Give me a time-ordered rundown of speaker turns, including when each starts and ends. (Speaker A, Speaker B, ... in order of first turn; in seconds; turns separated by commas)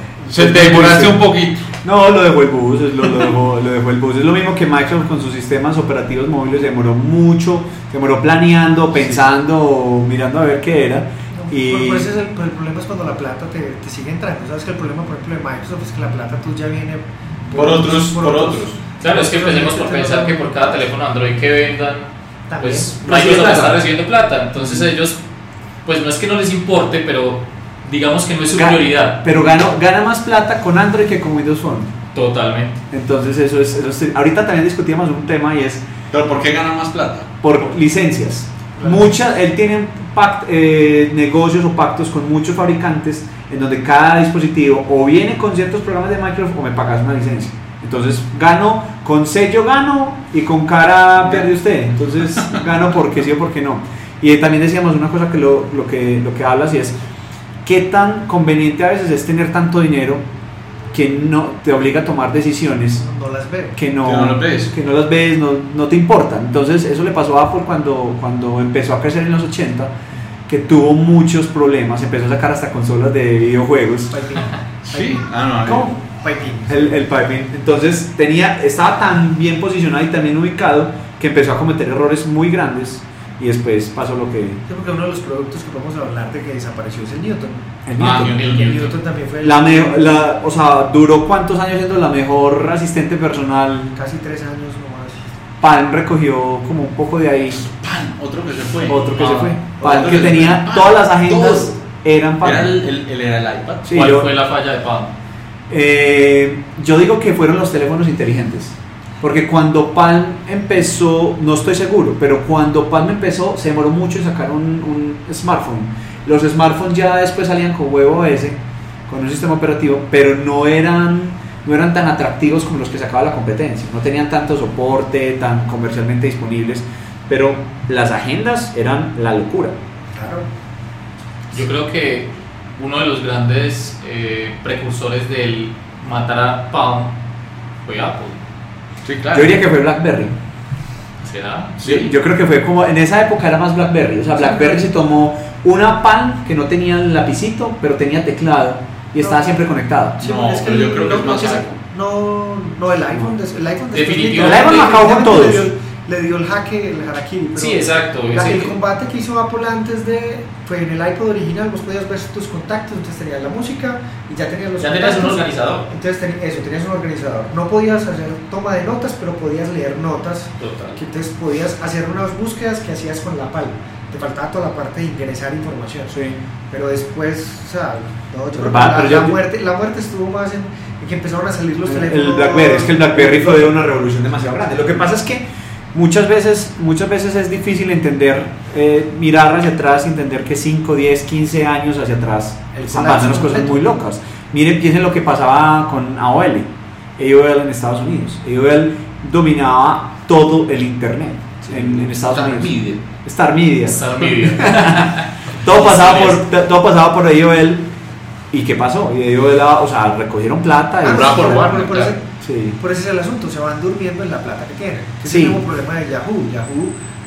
Speaker A: 0.2-1.2, Speaker B: 0.3-1.6, Speaker A: 1.8-12.1, Speaker C: 11.3-20.8, Speaker B: 17.5-18.8, Speaker D: 19.0-25.2, Speaker C: 22.5-22.9, Speaker A: 23.0-23.8, Speaker A: 24.6-24.8, Speaker D: 25.8-29.2, Speaker A: 28.5-31.9, Speaker D: 32.1-32.8, Speaker A: 32.9-35.8, Speaker B: 36.1-37.3, Speaker A: 37.4-56.9, Speaker C: 38.8-39.1, Speaker A: 57.6-60.2, Speaker A: 60.9-63.0, Speaker C: 63.0-63.8, Speaker A: 63.8-69.9, Speaker B: 64.0-64.7, Speaker A: 70.5-74.1, Speaker C: 74.1-76.9, Speaker B: 74.8-75.9, Speaker A: 76.7-84.6, Speaker C: 84.7-87.8, Speaker A: 87.8-88.3, Speaker B: 88.0-88.8, Speaker D: 88.0-88.9, Speaker C: 88.3-90.1, Speaker A: 89.4-93.9, Speaker C: 93.9-95.2, Speaker A: 95.6-97.7, Speaker B: 97.6-99.1, Speaker A: 98.9-102.8, Speaker D: 99.2-99.5, Speaker B: 99.8-101.8, Speaker C: 99.8-100.4, Speaker B: 102.4-103.9, Speaker A: 103.8-104.3, Speaker D: 103.9-105.1, Speaker A: 105.7-129.7, Speaker C: 130.1-130.5, Speaker D: 131.5-137.1, Speaker D: 137.8-138.4, Speaker B: 139.0-139.6, Speaker A: 139.3-140.3, Speaker D: 141.2-141.8, Speaker B: 141.8-142.1, Speaker A: 141.8-150.2, Speaker C: 144.4-144.8, Speaker C: 149.2-149.4, Speaker C: 150.2-176.2, Speaker B: 150.2-151.8, Speaker D: 153.9-154.8, Speaker A: 154.4-155.7, Speaker D: 157.6-158.8, Speaker D: 164.8-165.8, Speaker D: 170.6-171.0, Speaker A: 176.1-176.4, Speaker C: 176.7-183.7, Speaker A: 178.6-179.4, Speaker A: 181.8-207.8, Speaker C: 192.7-193.9, Speaker B: 201.7-203.0, Speaker D: 203.8-206.4, Speaker A: 208.5-211.6, Speaker C: 211.0-212.3, Speaker B: 211.0-212.1, Speaker A: 212.4-212.8, Speaker C: 212.8-216.9, Speaker A: 215.2-215.6